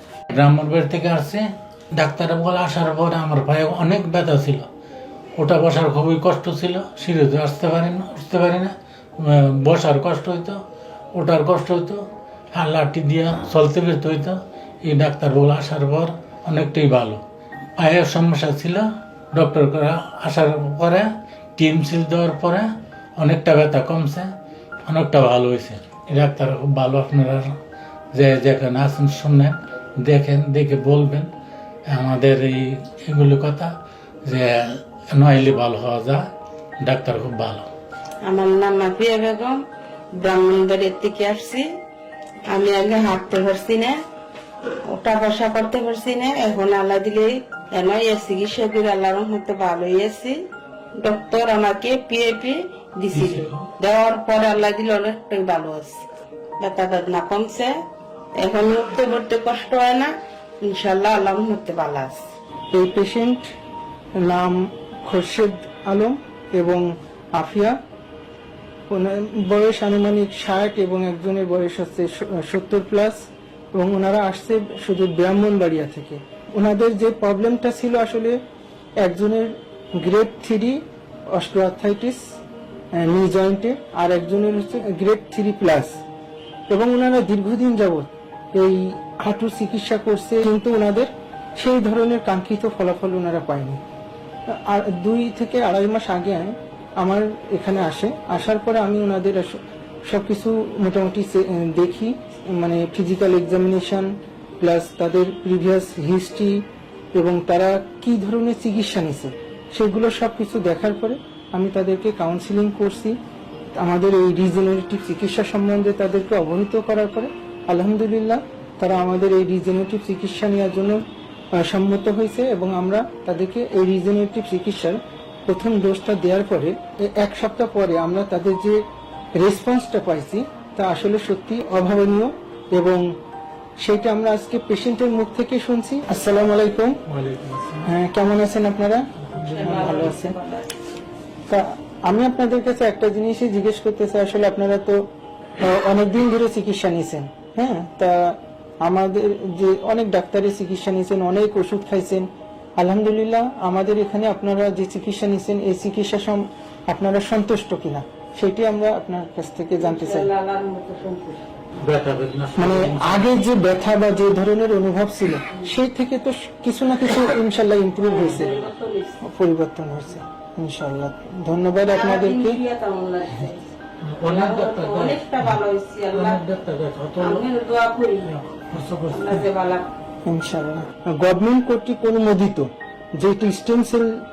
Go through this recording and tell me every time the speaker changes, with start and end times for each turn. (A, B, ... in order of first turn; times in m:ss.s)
0:00.3-0:04.7 A
0:05.4-0:10.6 A
0:11.1-0:17.2 A
0:17.8-0:24.3 A
0:24.9-0:27.6 A
0:28.1-0:31.3 A
0:31.9-0:33.7 A
0:34.3-0:36.3 A
0:36.8-0:37.7 A
0:38.2-0:39.6 B
0:40.2-0:41.7 B
0:42.5-0:44.0 B
0:44.9-0:50.4 B
0:51.0-0:56.0 B
0:53.1-0:53.7 A
0:56.6-0:57.7 B
0:58.4-1:02.2 B
1:02.7-1:03.5 C
1:04.2-1:07.8 C
1:08.9-1:18.4 C
1:19.0-1:20.8 C
1:21.3-1:22.4 C
1:22.9-1:26.0 C
1:26.7-1:33.8 C
1:34.5-1:53.2 C
1:53.8-2:01.0 C
2:01.6-2:08.8 C
2:09.4-2:13.1 C
2:13.8-2:17.0 C
2:17.1-2:17.9 A
2:17.8-2:20.4 C
2:19.3-2:20.0 A
2:19.4-2:20.7 B
2:21.5-2:25.0 C
2:25.6-2:32.3 C
2:32.8-2:40.3 C
2:39.8-2:41.4 B
2:41.8-2:43.3 A
2:42.6-2:48.5 C
2:48.0-2:49.2 B
2:49.2-2:52.6 C
2:51.9-2:53.6 B
2:54.0-2:55.6 A
2:54.2-2:56.4 B
2:56.1-2:57.4 A
2:57.2-2:58.3 B
2:58.2-2:59.5 A
2:59.1-2:59.9 B
3:00.3-3:04.1 C